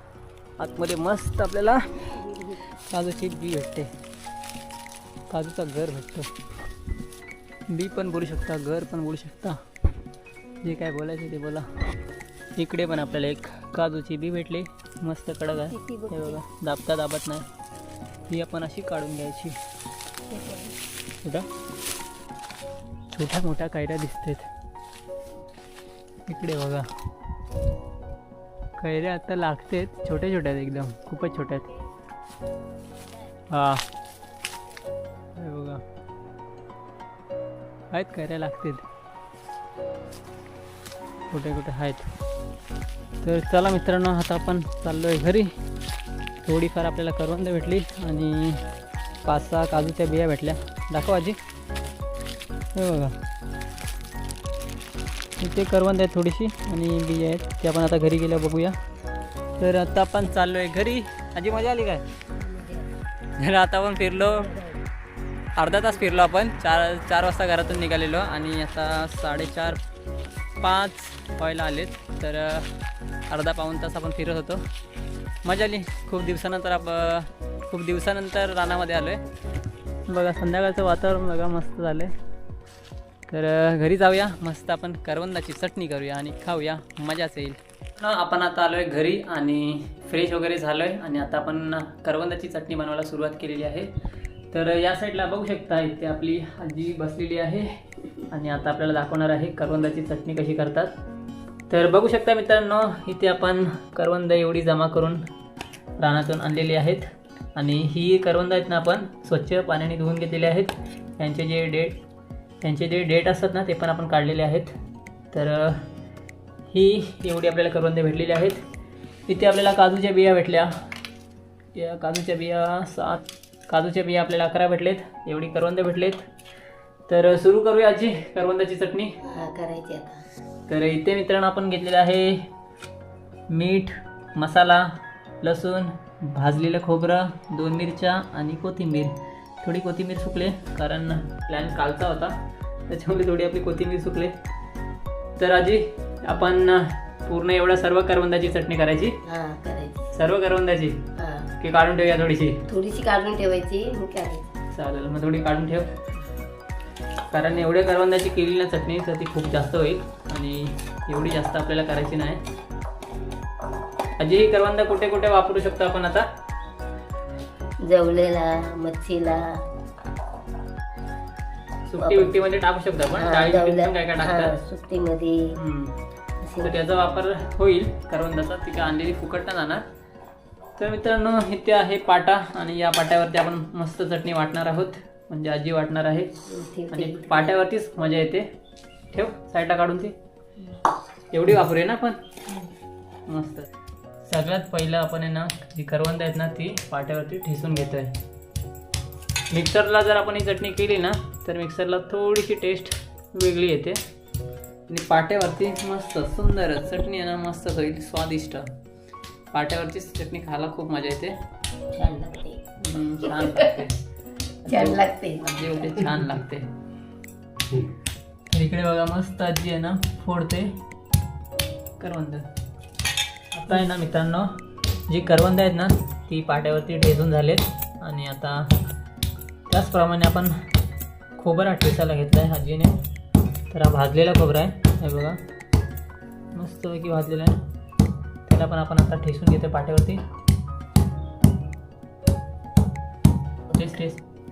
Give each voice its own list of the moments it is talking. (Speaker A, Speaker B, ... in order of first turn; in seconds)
Speaker A: 0.6-2.2, 2.7-3.9, 5.3-6.3, 7.7-9.6, 10.6-11.7, 12.6-17.5, 18.3-19.6, 23.1-24.5, 26.3-26.9, 28.8-31.7, 33.5-33.8, 35.4-35.8, 37.9-38.9, 41.3-42.1, 43.2-45.5, 46.4-48.6, 49.2-51.4, 52.8-53.2, 55.4-58.8, 59.6-62.0, 63.4-64.5, 65.6-69.8, 70.6-72.7, 73.3-74.7, 75.4-79.2, 80.1-82.1, 83.3-93.9, 94.5-97.7, 98.2-100.9, 101.7-105.2, 106.0-112.0, 112.6-114.7, 115.3-115.8, 116.7-118.6, 119.3-120.7, 121.7-126.2, 127.1-129.2, 130.7-132.4, 133.5-134.9, 135.4-144.3, 145.4-149.2, 150.1-152.7, 154.7-155.9, 157.3-162.4, 164.2-166.2, 171.9-174.6, 175.6-176.0, 176.6-179.8, 180.8-188.5, 189.1-190.2, 191.3-192.2, 193.3-193.7, 194.2-198.2, 199.5-204.0, 204.9-208.7, 209.5-211.4, 212.8-214.0, 214.6-216.7, 218.5-220.8, 222.0-222.5, 223.5-224.5, 225.1-228.7, 229.7-230.5, 231.4-233.0, 233.7-235.4, 236.6-237.6, 238.5-240.2, 243.7-244.2
Speaker B: 2.1-2.6, 15.7-16.4, 20.3-20.8, 62.4-63.0, 64.2-64.8, 129.2-130.2, 149.2-150.1, 151.2-151.5, 152.7-154.5, 167.8-169.6, 172.0-172.4, 173.1-175.6, 176.4-176.8, 186.5-187.6, 211.9-212.6, 213.3-213.7, 214.7-216.2